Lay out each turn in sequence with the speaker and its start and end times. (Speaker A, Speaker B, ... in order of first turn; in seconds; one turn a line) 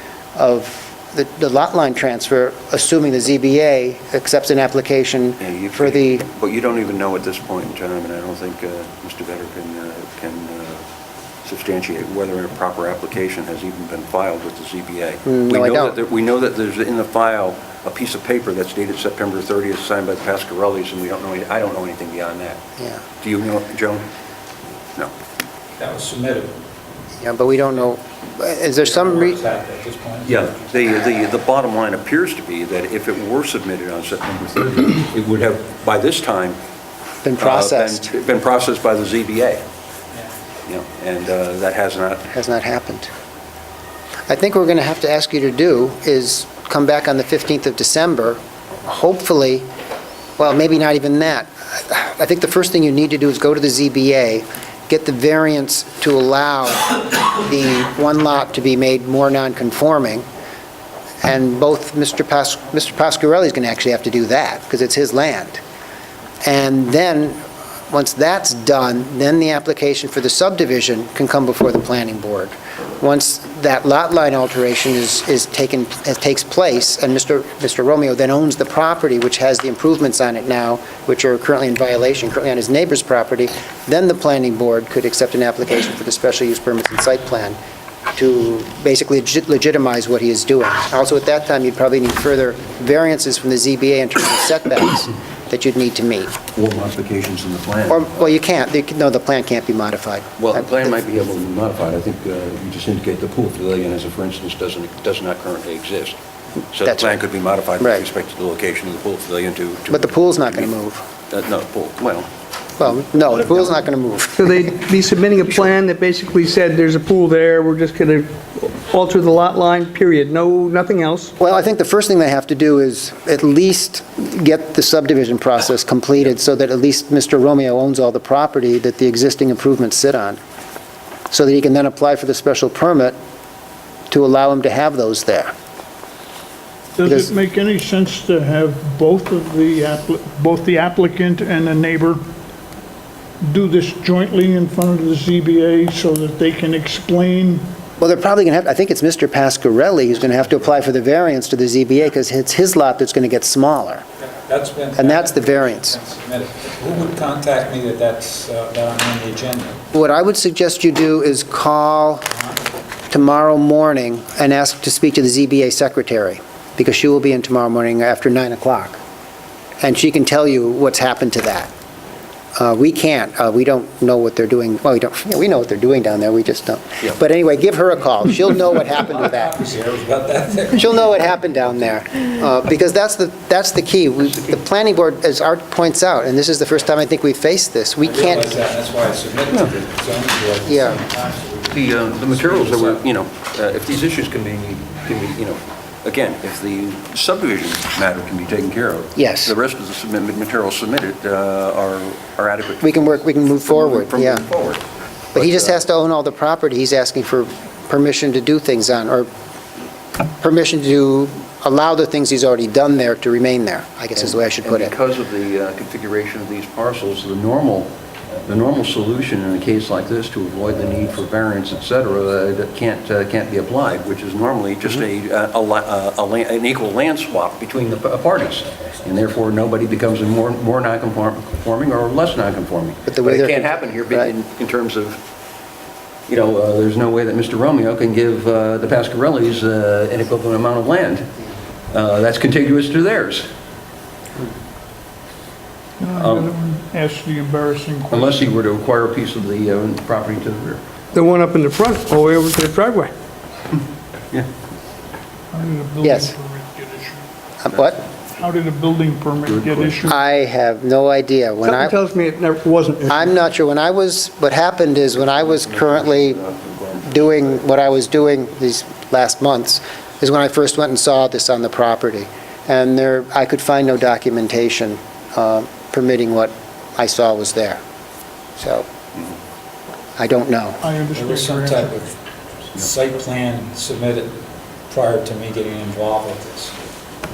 Speaker A: 0.3-6.2
Speaker B: 5.4-10.8
Speaker B: 11.4-22.6
Speaker A: 15.2-15.9
Speaker A: 22.8-23.0
Speaker B: 23.2-24.0
Speaker C: 25.8-26.5
Speaker A: 27.2-29.4
Speaker C: 28.8-30.6
Speaker B: 30.2-36.6
Speaker A: 37.2-38.1
Speaker B: 37.4-39.6
Speaker B: 40.7-42.3
Speaker A: 42.3-43.1
Speaker A: 44.3-49.7
Speaker A: 50.4-60.2
Speaker A: 61.2-65.6
Speaker A: 66.4-87.6
Speaker A: 88.1-96.3
Speaker B: 96.5-98.1
Speaker A: 97.9-100.9
Speaker B: 100.4-106.2
Speaker B: 106.7-110.7
Speaker A: 106.9-107.1
Speaker A: 107.8-108.0
Speaker A: 109.9-111.0
Speaker B: 111.3-112.3
Speaker A: 112.8-114.8
Speaker D: 114.4-121.3
Speaker A: 121.4-130.4
Speaker A: 131.3-133.1
Speaker A: 134.1-135.5
Speaker E: 137.0-142.2
Speaker E: 143.4-147.6
Speaker A: 148.0-154.0
Speaker C: 154.3-159.8
Speaker A: 154.9-156.0
Speaker A: 159.9-162.2
Speaker A: 163.1-169.0
Speaker A: 169.8-171.7
Speaker A: 172.6-179.5
Speaker C: 178.9-181.2
Speaker A: 180.7-188.5
Speaker B: 184.3-184.5
Speaker C: 188.0-193.0
Speaker A: 190.7-191.0
Speaker B: 191.7-205.8
Speaker A: 199.2-199.5
Speaker A: 202.8-204.4
Speaker A: 205.3-209.3
Speaker A: 210.4-214.9
Speaker B: 214.2-235.2
Speaker A: 233.1-234.3
Speaker B: 236.3-241.3
Speaker B: 241.9-243.5
Speaker E: 246.0-248.5
Speaker B: 246.2-246.5
Speaker B: 248.1-250.8
Speaker D: 251.1-253.1
Speaker E: 255.5-257.3
Speaker A: 256.0-256.3
Speaker A: 257.6-258.0
Speaker E: 258.4-260.1
Speaker B: 259.4-260.1
Speaker A: 260.1-261.9
Speaker D: 261.6-263.3
Speaker A: 263.1-266.4
Speaker B: 265.2-267.6
Speaker A: 267.1-277.8
Speaker A: 278.6-278.9
Speaker A: 280.2-280.8
Speaker E: 280.8-282.0
Speaker C: 281.1-282.2
Speaker C: 282.7-284.4
Speaker C: 284.9-286.7